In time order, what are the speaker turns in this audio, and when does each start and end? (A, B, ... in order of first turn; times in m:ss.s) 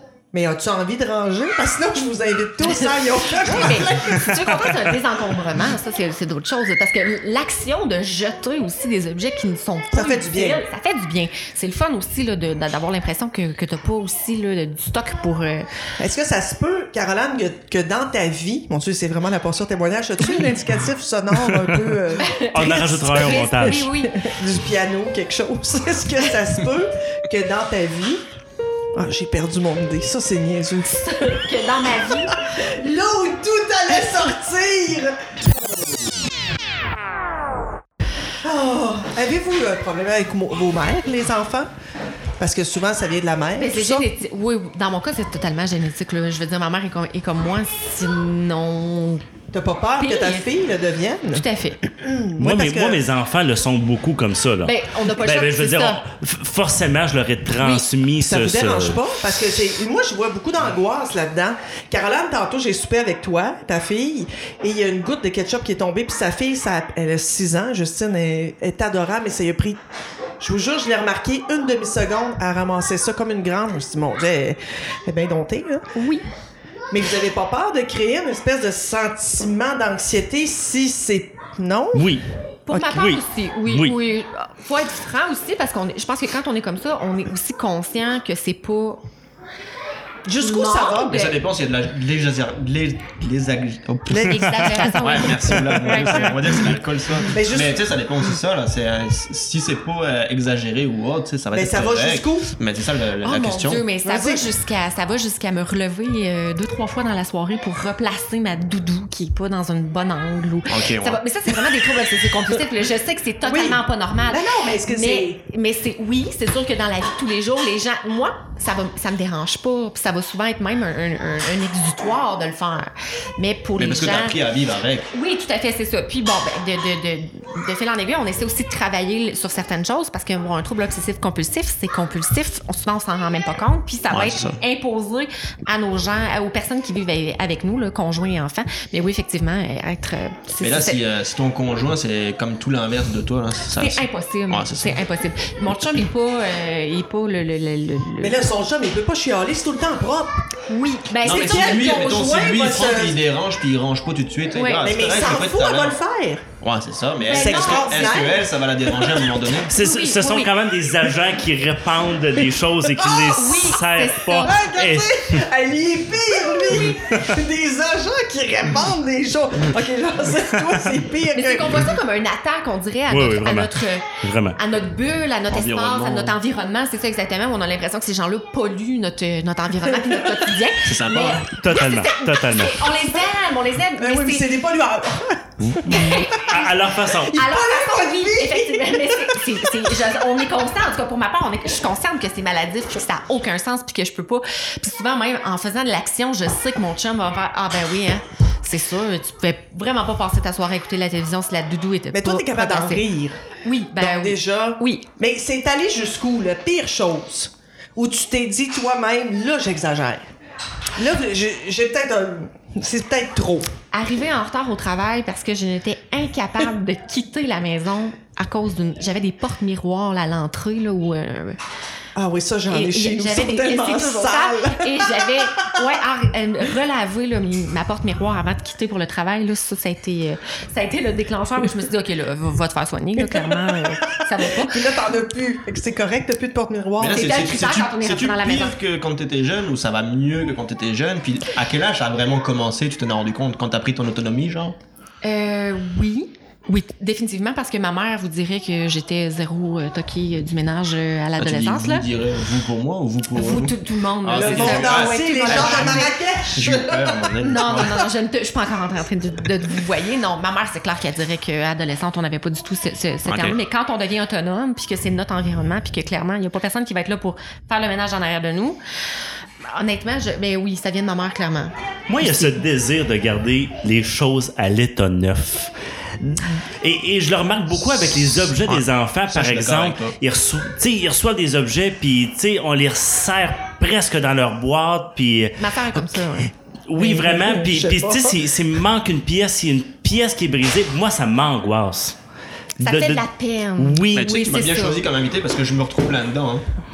0:00.3-0:04.3 A
0:02.6-0:15.7 B
0:09.9-0:10.6 A
0:16.0-0:28.2 A
0:22.2-0:24.2 B
0:22.5-0:23.9 C
0:28.9-0:31.4 A
0:31.0-0:32.4 B
0:32.3-0:35.2 A
0:38.4-0:41.7 A
0:42.4-0:44.1 A
0:43.6-0:49.2 B
0:49.5-0:51.4 A
0:50.0-0:50.5 B
0:51.3-0:51.8 B
0:52.0-0:53.0 A
0:52.4-0:59.0 C
0:54.6-0:56.0 B
0:57.6-0:57.9 B
0:58.2-1:09.8 A
1:10.4-1:15.9 A
1:15.9-1:16.2 B
1:16.9-1:22.1 A
1:21.9-1:24.0 C
1:22.7-1:29.0 B
1:30.2-1:31.2 A
1:30.4-1:31.4 B
1:31.0-1:43.8 D
1:34.1-1:36.4 B
1:34.5-1:34.9 C
1:35.9-1:36.3 C
1:37.3-1:37.8 A
1:41.5-1:42.5 A
1:43.2-2:04.4 B
1:44.0-1:44.4 A
1:50.7-1:51.2 D
1:53.4-1:55.4 A
2:03.8-2:05.1 D
2:05.1-2:21.0 B
2:14.1-2:14.6 D
2:20.6-2:25.0 D
2:23.7-2:28.4 B
2:28.2-2:30.4 A
2:30.7-2:32.1 B
2:31.2-2:36.0 D
2:31.2-2:33.2 A
2:34.5-2:34.9 B
2:34.8-2:36.4 A
2:36.6-2:39.8 D
2:37.3-2:38.3 B
2:37.3-2:38.5 A
2:39.7-2:45.4 C
2:39.7-2:40.5 B
2:43.0-2:44.6 B
2:44.4-2:51.9 A
2:46.8-2:47.3 C
2:51.3-3:04.5 B
2:53.1-2:54.6 C
2:55.5-2:56.4 D
3:00.8-3:01.5 D
3:01.5-3:02.9 C
3:04.0-3:06.3 A
3:05.7-3:07.4 C
3:05.8-3:23.0 B
3:07.3-3:09.4 A
3:22.1-3:23.4 A
3:23.6-3:25.0 B
3:24.0-3:30.2 A
3:31.0-3:33.7 A
3:33.9-3:41.6 B
3:42.2-3:45.8 A
3:42.7-3:54.9 B
3:53.2-3:57.3 A
3:57.0-4:04.8 D
3:57.1-3:58.8 B
4:05.2-4:12.0 B
4:11.4-4:18.0 D
4:13.3-4:16.1 B
4:14.3-4:17.3 A
4:17.4-4:28.8 B
4:23.2-4:23.6 D
4:29.6-4:32.6 B
4:32.1-4:46.2 C
4:38.6-4:40.2 D
4:45.6-4:46.5 B
4:46.9-4:52.2 C
4:47.0-4:48.4 A
4:52.8-4:53.2 C
4:52.8-4:55.0 B
4:53.8-4:54.3 C
4:54.1-4:56.6 D